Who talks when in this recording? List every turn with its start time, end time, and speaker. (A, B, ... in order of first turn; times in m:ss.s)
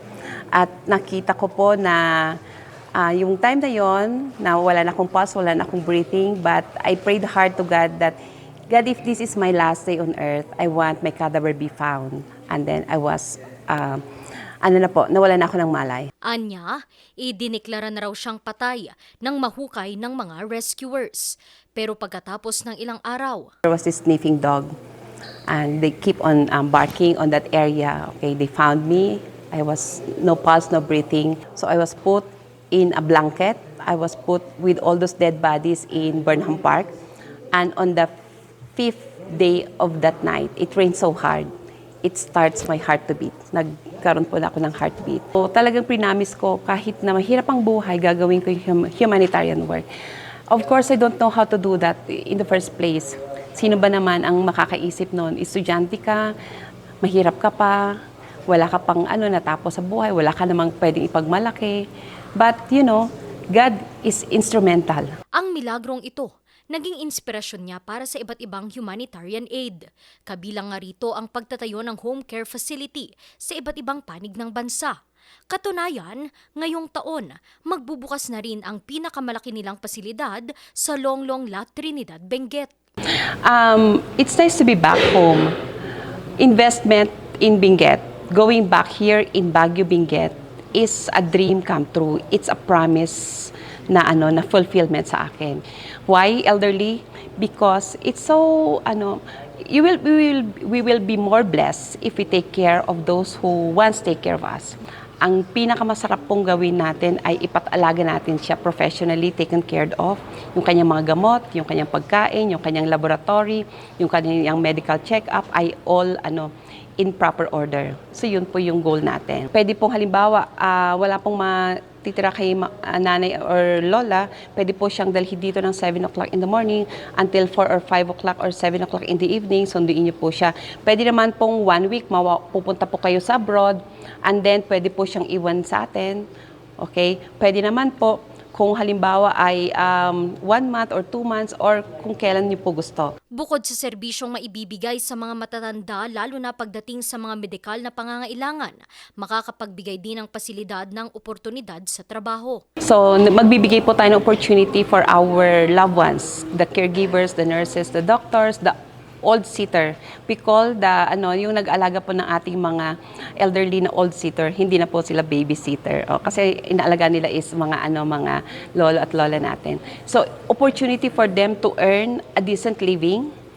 0:00.5-0:02.4 A
0:02.9-0:08.2 A
0:08.7-0:14.0 A
0:14.6-0:16.1 A
0:16.2-0:23.5 B
0:23.6-0:24.7 A
0:25.5-0:36.9 A
0:37.5-0:38.1 A
0:38.7-0:41.5 A
0:42.0-0:49.9 A
0:50.5-0:56.3 A
0:57.0-0:58.0 A
0:58.5-1:01.8 A
1:02.4-1:05.1 A
1:05.4-1:15.0 B
1:15.5-1:22.7 B
1:23.4-1:25.6 A
1:26.4-2:16.2 A
2:16.8-2:23.1 A
2:23.3-2:32.6 B
2:32.8-2:53.3 A